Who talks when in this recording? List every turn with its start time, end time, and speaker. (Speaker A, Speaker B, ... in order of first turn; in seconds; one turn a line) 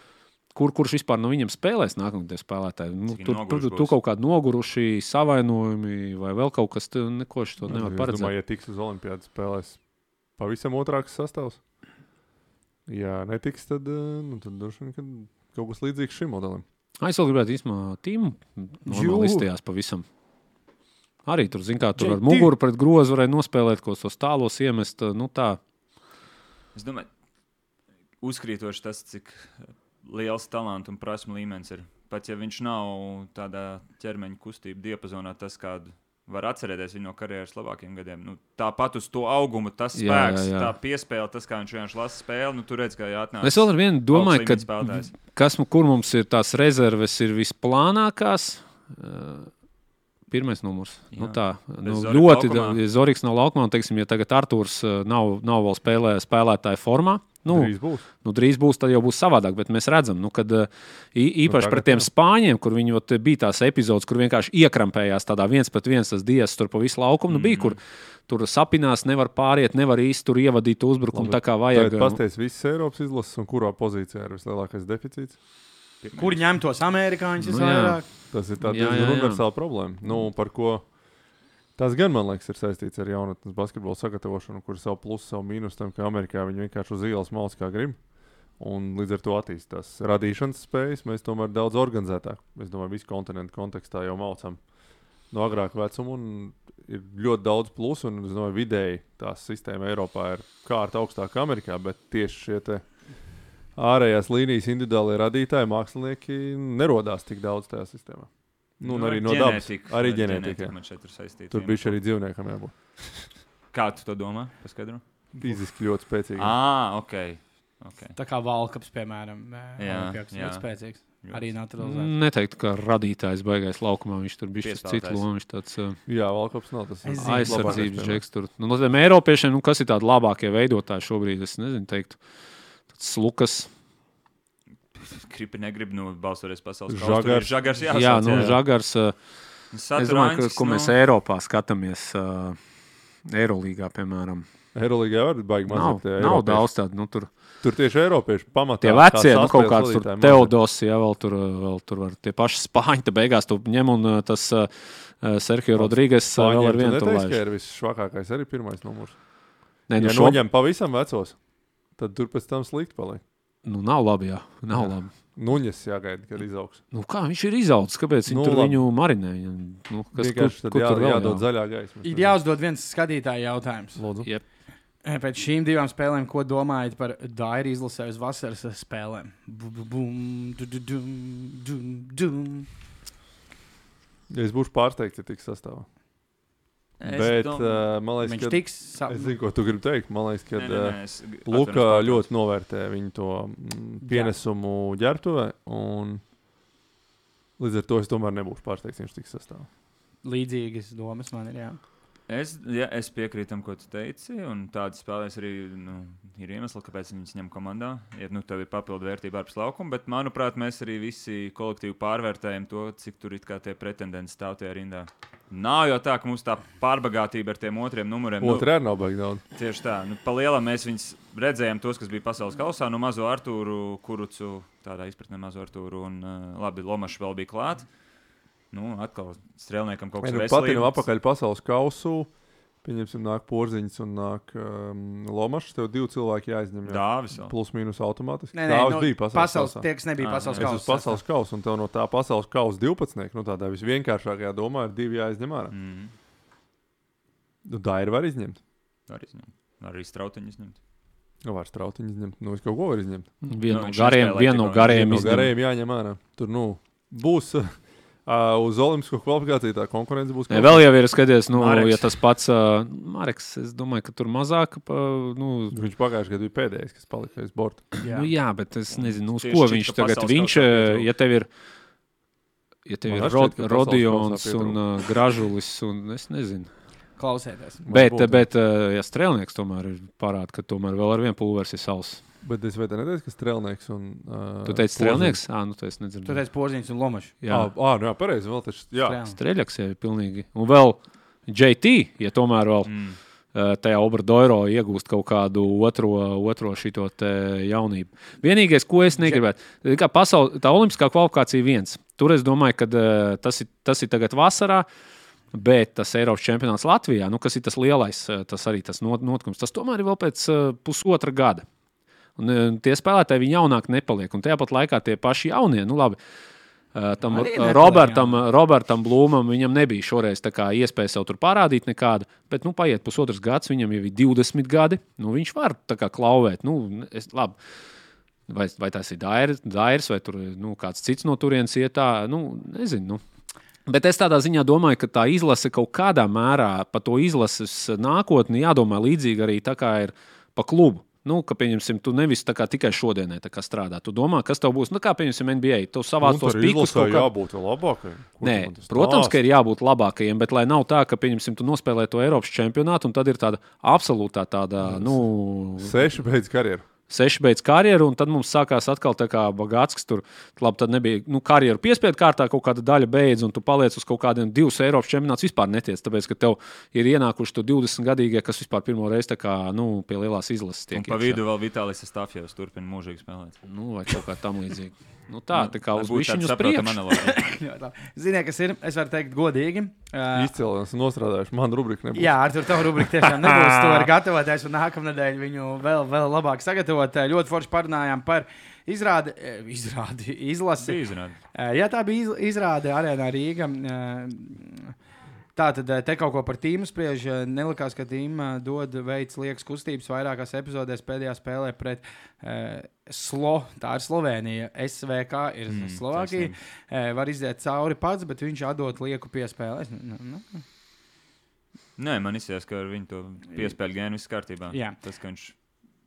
Speaker A: 0.5-8.3
Speaker B: 3.1-4.0
Speaker C: 7.6-9.8
Speaker C: 10.4-11.6
Speaker C: 12.9-16.6
Speaker A: 17.0-20.0
Speaker D: 18.9-19.5
Speaker A: 21.2-25.6
Speaker D: 22.0-22.5
Speaker B: 26.7-27.1
Speaker B: 28.2-45.1
Speaker A: 39.9-40.7
Speaker A: 43.4-49.5
Speaker A: 50.3-72.2
Speaker B: 51.1-52.8
Speaker C: 57.5-58.0
Speaker C: 61.4-62.1
Speaker B: 67.3-67.8
Speaker C: 71.1-75.4
Speaker B: 76.0-76.4
Speaker D: 76.2-78.0
Speaker A: 77.4-78.0
Speaker C: 78.3-80.8
Speaker A: 78.6-79.4
Speaker C: 81.8-88.0
Speaker C: 88.6-94.6
Speaker C: 95.3-102.8
Speaker C: 103.8-110.7
Speaker B: 108.8-112.0
Speaker C: 111.5-113.3
Speaker B: 113.7-115.0
Speaker C: 115.3-116.5
Speaker B: 116.3-118.2
Speaker D: 118.2-122.1
Speaker B: 119.8-120.6
Speaker A: 121.8-126.0
Speaker B: 124.6-125.2
Speaker C: 126.1-128.2
Speaker D: 127.0-127.9
Speaker A: 127.2-132.2
Speaker A: 132.9-133.7
Speaker B: 134.9-138.6
Speaker C: 136.9-137.6
Speaker A: 137.9-139.1
Speaker C: 138.2-138.6
Speaker B: 139.7-140.9
Speaker A: 140.0-142.6
Speaker A: 143.3-144.5
Speaker C: 144.7-146.7
Speaker A: 145.7-147.3
Speaker C: 147.6-150.5
Speaker A: 148.8-157.4
Speaker C: 155.7-159.2
Speaker A: 159.9-160.4
Speaker C: 159.9-161.3
Speaker C: 162.0-163.2
Speaker A: 163.6-165.1
Speaker C: 164.7-166.8
Speaker A: 166.9-171.4
Speaker C: 168.2-168.8
Speaker C: 170.1-172.4
Speaker D: 172.0-174.0
Speaker C: 173.9-174.3
Speaker D: 175.0-182.7
Speaker C: 184.3-185.8
Speaker B: 187.0-187.8
Speaker C: 187.0-196.2
Speaker D: 188.2-189.3
Speaker B: 190.5-192.3
Speaker D: 194.0-194.3
Speaker C: 197.6-199.7
Speaker D: 200.2-201.8
Speaker B: 202.3-218.7
Speaker C: 218.4-219.4
Speaker B: 219.6-227.9
Speaker B: 228.7-231.0
Speaker C: 230.2-232.3
Speaker C: 232.8-239.8
Speaker B: 236.8-237.5
Speaker D: 238.5-241.2
Speaker B: 240.2-240.7
Speaker C: 240.5-245.7
Speaker B: 245.7-246.1
Speaker C: 247.6-248.6
Speaker B: 249.1-250.8
Speaker C: 251.4-253.3
Speaker A: 253.4-255.5
Speaker B: 253.7-255.4
Speaker C: 254.8-260.9
Speaker A: 260.5-265.8
Speaker B: 261.5-262.1
Speaker C: 265.7-267.9
Speaker D: 268.0-268.3
Speaker A: 268.1-271.5
Speaker B: 268.9-271.1
Speaker A: 272.9-276.7
Speaker C: 273.1-274.8
Speaker D: 277.2-277.9
Speaker C: 277.9-278.5
Speaker A: 277.9-282.2
Speaker C: 282.4-285.4
Speaker A: 284.6-286.4
Speaker D: 286.2-287.3
Speaker A: 287.4-287.7
Speaker C: 287.5-289.2
Speaker D: 289.0-289.4
Speaker A: 289.3-292.9
Speaker B: 292.9-293.2
Speaker A: 293.5-304.9
Speaker D: 299.1-299.4
Speaker A: 305.5-311.6
Speaker A: 312.4-316.2
Speaker A: 316.9-327.6
Speaker D: 317.2-318.4
Speaker A: 328.5-333.2
Speaker A: 333.9-347.3
Speaker C: 346.2-349.4
Speaker A: 348.4-356.0
Speaker C: 354.8-355.2
Speaker C: 355.8-356.8
Speaker A: 357.1-371.4
Speaker B: 370.9-373.6
Speaker A: 373.6-377.0
Speaker B: 375.5-377.4
Speaker D: 377.1-380.5
Speaker C: 380.3-384.1
Speaker D: 382.1-391.0
Speaker B: 390.8-391.4
Speaker D: 391.5-394.9
Speaker D: 395.6-410.6
Speaker B: 405.7-406.5
Speaker B: 412.0-415.5